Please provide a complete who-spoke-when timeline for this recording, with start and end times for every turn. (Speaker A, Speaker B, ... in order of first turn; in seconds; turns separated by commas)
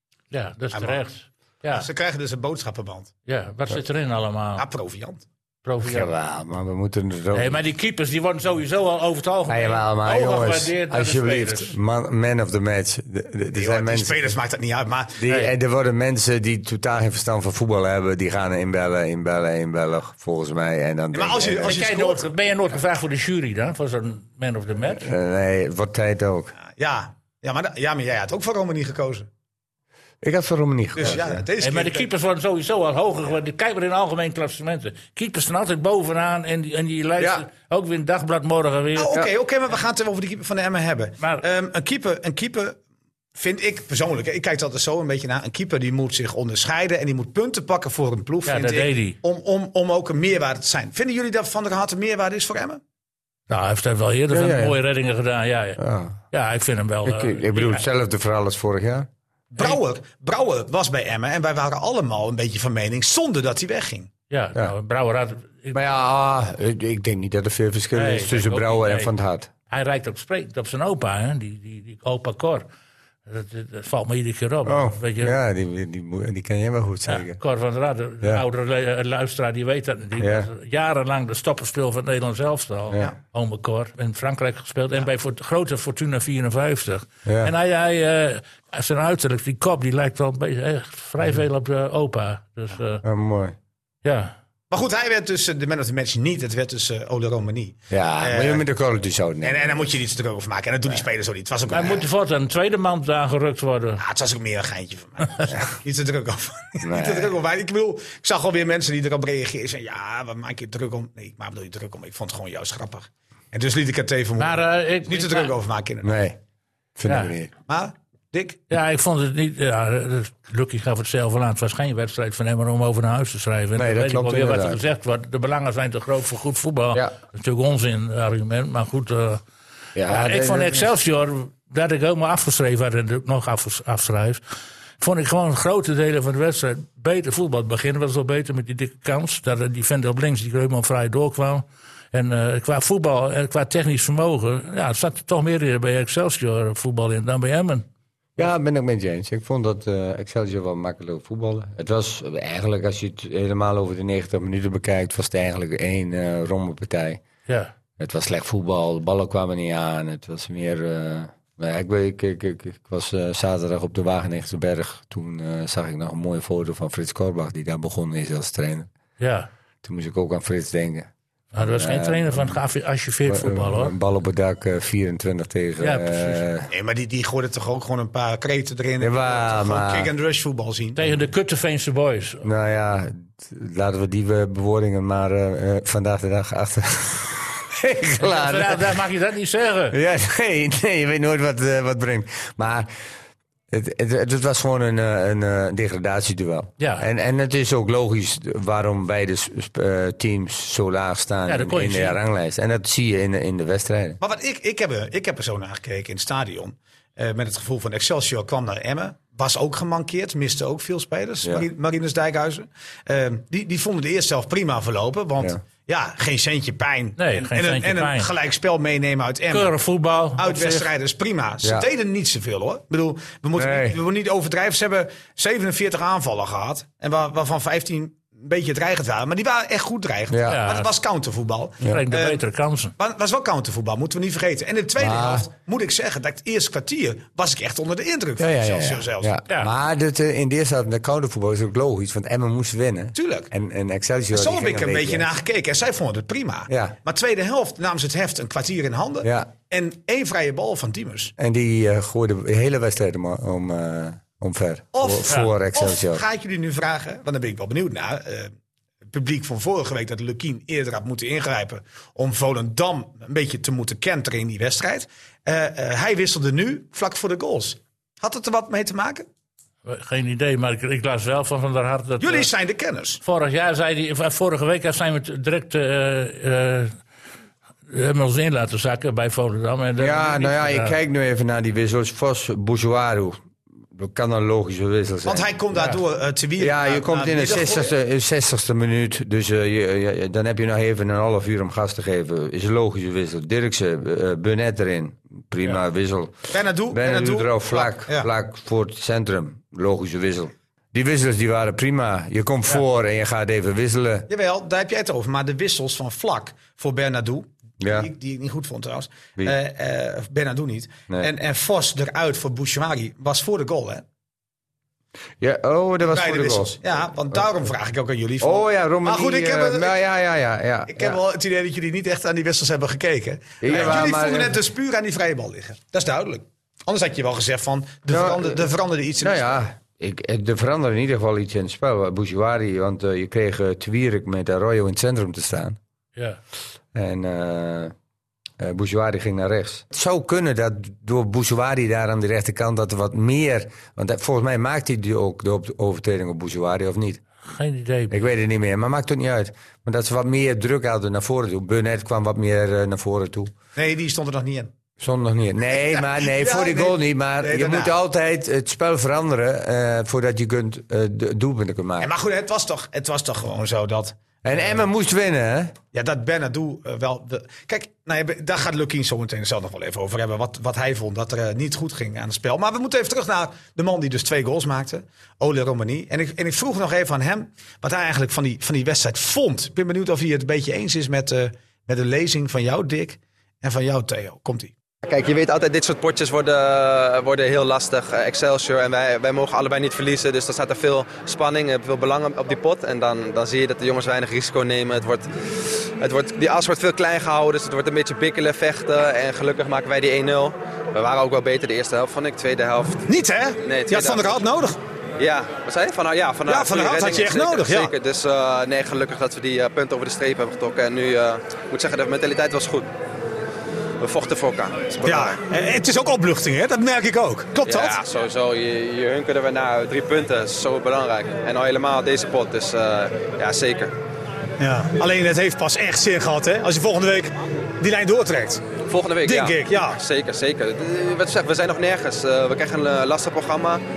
Speaker A: 0.3-1.9, Speaker B: 0.7-1.0, Speaker B: 1.7-3.1, Speaker A: 3.3-4.7, Speaker B: 4.6-5.2, Speaker A: 5.6-6.1, Speaker C: 5.8-7.6, Speaker A: 7.3-11.7, Speaker C: 9.5-14.3, Speaker B: 13.5-15.2, Speaker C: 15.2-21.8, Speaker A: 15.3-15.5, Speaker B: 21.1-22.2, Speaker A: 21.6-25.1, Speaker C: 24.9-26.5, Speaker B: 26.6-29.3, Speaker C: 30.2-31.4, Speaker B: 30.9-32.1, Speaker A: 31.6-39.2, Speaker C: 37.2-37.4, Speaker B: 39.0-42.8, Speaker B: 43.4-52.8, Speaker A: 48.5-49.2, Speaker A: 53.5-55.8, Speaker C: 54.3-54.8, Speaker C: 55.8-56.2, Speaker A: 56.3-57.8, Speaker C: 57.0-59.1, Speaker B: 59.5-64.1, Speaker A: 64.3-65.8, Speaker C: 65.7-69.5, Speaker A: 67.9-69.1, Speaker A: 69.7-72.6, Speaker A: 73.2-75.4, Speaker C: 74.7-77.4, Speaker A: 77.1-93.0, Speaker C: 80.2-80.5, Speaker C: 87.2-87.5, Speaker C: 93.0-93.5, Speaker A: 94.0-94.3, Speaker B: 94.7-98.6, Speaker C: 97.9-99.9, Speaker B: 99.4-102.0, Speaker A: 101.7-104.0, Speaker B: 104.0-116.1, Speaker C: 106.8-107.3, Speaker A: 114.4-115.5, Speaker C: 116.0-116.4, Speaker C: 117.0-117.5, Speaker A: 117.1-117.3, Speaker B: 117.7-118.6, Speaker A: 118.7-129.4, Speaker C: 123.8-124.8, Speaker C: 129.9-130.9, Speaker A: 130.1-134.4, Speaker A: 135.0-147.8, Speaker C: 148.4-157.2, Speaker C: 158.0-168.9, Speaker A: 169.2-169.5, Speaker C: 169.8-172.6, Speaker A: 171.5-173.9, Speaker C: 173.3-176.7, Speaker A: 175.8-176.4, Speaker B: 176.7-181.1, Speaker C: 179.0-180.1, Speaker A: 181.0-182.4, Speaker C: 182.4-188.9, Speaker A: 188.2-189.9, Speaker C: 189.9-192.9, Speaker C: 193.7-204.2, Speaker A: 196.8-197.1, Speaker A: 201.5-202.2, Speaker B: 204.2-219.7, Speaker A: 217.2-218.3, Speaker A: 219.5-220.9, Speaker B: 220.3-232.4, Speaker C: 223.6-224.0, Speaker C: 230.3-230.6, Speaker A: 230.5-230.9, Speaker A: 231.9-232.9, Speaker B: 233.0-239.3, Speaker C: 235.0-235.4, Speaker C: 238.4-245.3, Speaker B: 243.1-243.5, Speaker B: 244.3-251.3, Speaker C: 246.7-246.9, Speaker C: 249.2-249.5, Speaker C: 251.4-256.2, Speaker B: 254.9-258.5, Speaker B: 259.1-269.2, Speaker A: 269.8-272.5, Speaker B: 272.2-273.2, Speaker A: 273.2-277.0, Speaker A: 277.9-280.9, Speaker C: 280.0-283.4, Speaker C: 283.9-285.5, Speaker B: 285.2-287.9, Speaker C: 286.6-304.3, Speaker B: 296.5-298.3, Speaker B: 304.3-314.0, Speaker C: 307.8-308.1, Speaker C: 315.4-316.8, Speaker B: 316.0-320.0, Speaker C: 318.4-321.2, Speaker B: 320.9-329.4, Speaker C: 323.6-324.6, Speaker C: 328.1-335.8, Speaker C: 336.9-337.9, Speaker C: 338.6-347.2, Speaker A: 347.5-348.1, Speaker C: 348.1-353.5, Speaker B: 353.8-354.7, Speaker C: 355.0-362.1, Speaker B: 355.6-357.9, Speaker B: 362.0-364.8, Speaker C: 364.4-365.7, Speaker B: 365.9-384.7, Speaker D: 385.0-395.3, Speaker D: 396.0-403.0, Speaker B: 403.1-404.8, Speaker D: 403.6-404.4, Speaker D: 405.2-412.9, Speaker B: 406.4-407.9, Speaker D: 414.0-415.4, Speaker B: 415.0-418.0, Speaker D: 417.6-423.9, Speaker B: 424.6-428.6, Speaker D: 428.9-433.8, Speaker B: 429.2-430.0